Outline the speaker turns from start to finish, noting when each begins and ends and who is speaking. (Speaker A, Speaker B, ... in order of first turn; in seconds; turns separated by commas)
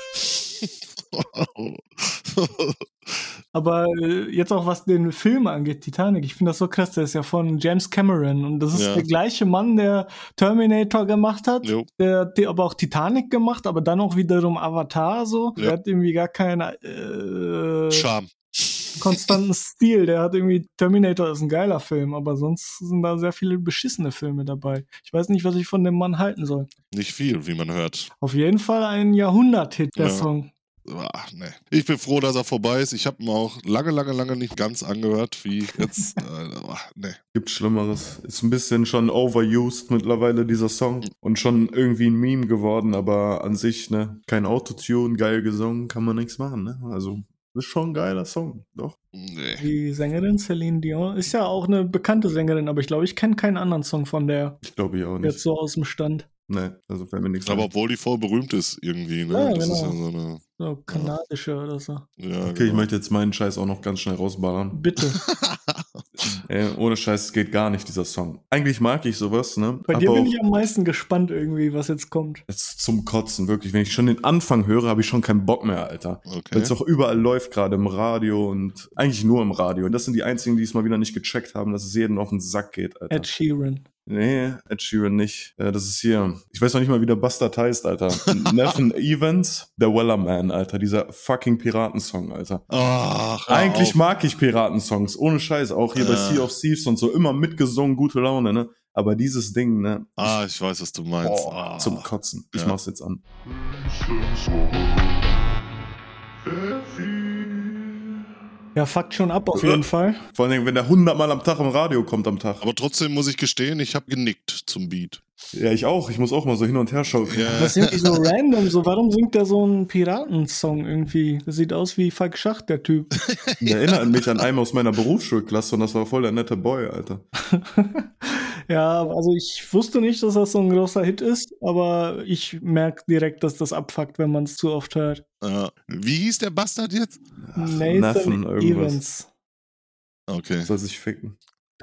Speaker A: 0.6-3.3, Speaker B: 3.5-18.1, Speaker A: 8.7-9.1, Speaker A: 11.6-11.9, Speaker A: 17.9-19.4, Speaker B: 19.0-26.7, Speaker A: 26.9-28.1, Speaker B: 28.2-30.5, Speaker A: 30.0-30.3, Speaker A: 30.9-37.2, Speaker B: 35.8-36.2, Speaker C: 37.3-49.0, Speaker A: 49.1-49.7, Speaker B: 49.6-54.6, Speaker C: 54.6-55.4, Speaker B: 55.2-56.3, Speaker C: 56.5-57.7, Speaker A: 57.5-61.1, Speaker B: 59.3-60.0, Speaker B: 60.6-62.0, Speaker A: 62.2-62.9, Speaker C: 62.4-64.8, Speaker B: 64.7-65.2, Speaker A: 65.1-66.3, Speaker C: 66.4-70.4, Speaker B: 69.9-72.4, Speaker C: 72.5-83.3, Speaker A: 76.3-76.7, Speaker B: 83.1-83.8, Speaker C: 84.1-92.7, Speaker A: 88.3-88.7, Speaker A: 92.7-94.0, Speaker C: 93.5-100.4, Speaker A: 96.0-96.5, Speaker A: 100.2-102.8, Speaker C: 101.2-103.2, Speaker B: 108.8-110.2, Speaker C: 109.5-112.6, Speaker A: 112.6-115.2, Speaker C: 115.5-117.9, Speaker A: 117.3-117.9, Speaker B: 117.6-123.1, Speaker A: 123.3-123.7, Speaker C: 123.6-127.2, Speaker B: 127.4-135.2, Speaker A: 135.4-137.2, Speaker C: 137.4-139.0, Speaker B: 137.6-139.3, Speaker A: 140.3-140.7, Speaker C: 140.7-141.4